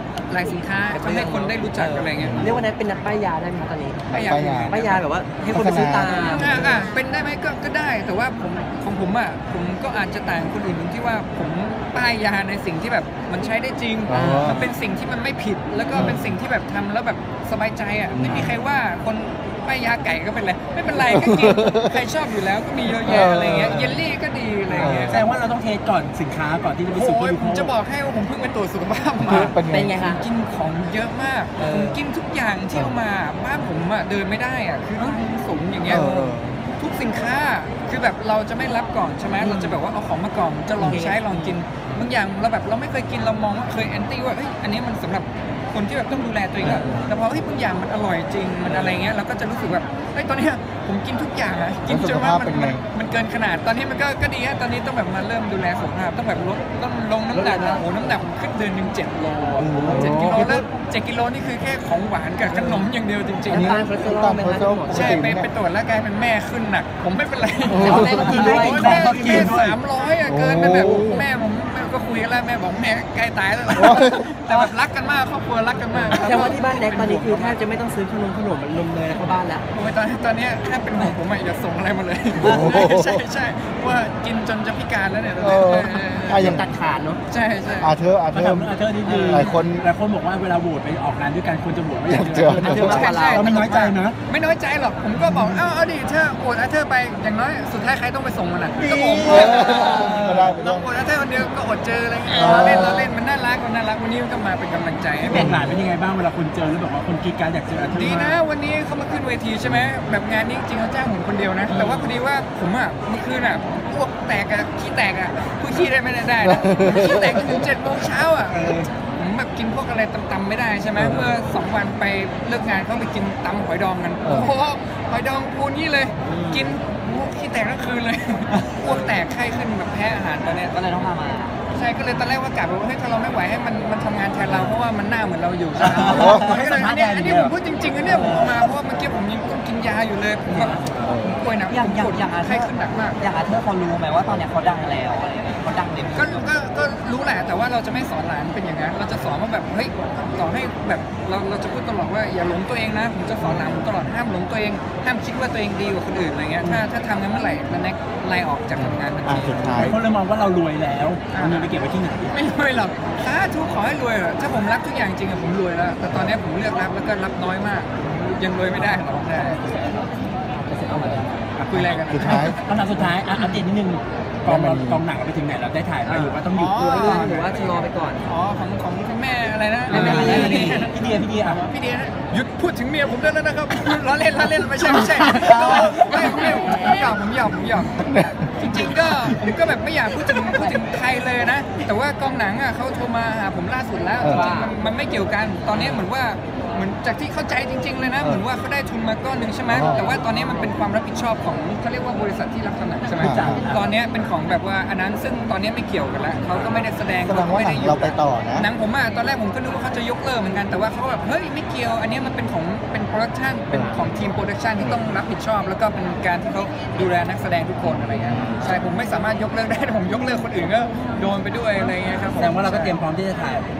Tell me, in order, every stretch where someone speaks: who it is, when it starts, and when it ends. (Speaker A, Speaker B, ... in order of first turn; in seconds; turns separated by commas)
Speaker A: 0.3-2.6, Speaker B: 0.9-6.8, Speaker C: 2.2-2.7, Speaker C: 4.1-4.8, Speaker A: 4.1-5.0, Speaker C: 5.5-6.7, Speaker A: 6.1-25.3, Speaker C: 14.1-14.7, Speaker B: 14.1-14.7, Speaker C: 15.9-16.3, Speaker C: 18.1-18.5, Speaker C: 21.0-21.8, Speaker C: 23.0-24.0, Speaker B: 23.1-23.8, Speaker B: 24.7-25.1, Speaker C: 24.8-25.3, Speaker D: 25.1-27.7, Speaker A: 26.9-36.1, Speaker C: 29.2-30.0, Speaker B: 29.7-30.2, Speaker B: 31.6-32.0, Speaker C: 35.9-36.6, Speaker B: 35.9-36.4, Speaker A: 36.7-63.8, Speaker B: 39.5-39.8, Speaker B: 40.8-41.6, Speaker C: 46.6-47.1, Speaker B: 46.6-47.0, Speaker B: 48.7-49.0, Speaker C: 51.9-52.8, Speaker B: 57.3-57.9, Speaker C: 59.6-60.6, Speaker B: 59.9-60.5, Speaker B: 62.5-62.9, Speaker B: 63.5-65.2, Speaker C: 63.5-65.5, Speaker A: 64.9-77.6, Speaker C: 67.7-68.4, Speaker B: 67.8-69.5, Speaker E: 67.8-69.0, Speaker D: 68.2-69.8, Speaker C: 70.2-71.2, Speaker C: 73.7-74.2, Speaker B: 75.9-79.7, Speaker A: 79.7-86.4, Speaker C: 82.4-83.2, Speaker C: 85.4-86.7, Speaker B: 85.7-87.2, Speaker A: 87.3-87.9, Speaker C: 87.8-89.9, Speaker D: 88.3-94.2, Speaker E: 89.3-89.6, Speaker C: 92.1-93.0, Speaker B: 92.6-93.5, Speaker A: 92.7-105.5, Speaker C: 95.2-95.6, Speaker D: 98.8-100.5, Speaker C: 99.2-100.9, Speaker C: 102.3-103.1, Speaker B: 102.4-103.1, Speaker D: 105.2-108.4, Speaker C: 105.3-105.8, Speaker A: 107.9-131.2, Speaker C: 109.6-109.9, Speaker B: 111.8-112.0, Speaker C: 116.4-117.5, Speaker D: 118.5-118.9, Speaker C: 121.0-121.3, Speaker C: 124.2-124.5, Speaker B: 126.2-126.8, Speaker E: 128.8-129.2, Speaker E: 130.7-131.6, Speaker A: 131.7-143.2, Speaker C: 134.5-134.7, Speaker D: 135.8-137.6, Speaker E: 136.0-136.4, Speaker C: 136.1-136.5, Speaker D: 138.2-138.7, Speaker E: 140.5-140.9, Speaker C: 140.9-141.4, Speaker E: 141.7-146.4, Speaker A: 146.1-159.9, Speaker C: 158.8-160.0, Speaker D: 159.8-162.3, Speaker A: 161.3-161.7, Speaker A: 162.3-169.6, Speaker D: 169.3-170.1, Speaker D: 170.7-177.1, Speaker B: 170.8-171.4, Speaker A: 171.7-172.8, Speaker C: 172.1-173.0, Speaker C: 174.5-175.0, Speaker B: 176.1-176.4, Speaker A: 176.5-223.0, Speaker B: 176.9-178.2, Speaker B: 179.9-180.9, Speaker D: 179.9-181.6, Speaker E: 179.9-180.6, Speaker B: 185.3-187.2, Speaker C: 187.9-189.4, Speaker C: 194.2-194.5, Speaker B: 194.3-194.8, Speaker B: 195.7-196.1, Speaker C: 198.2-198.4, Speaker C: 199.7-200.2, Speaker B: 200.2-200.7, Speaker D: 203.2-203.9, Speaker C: 203.2-203.7, Speaker C: 207.2-208.7, Speaker C: 213.7-214.2, Speaker C: 214.8-215.2, Speaker C: 217.8-218.8, Speaker D: 222.3-223.7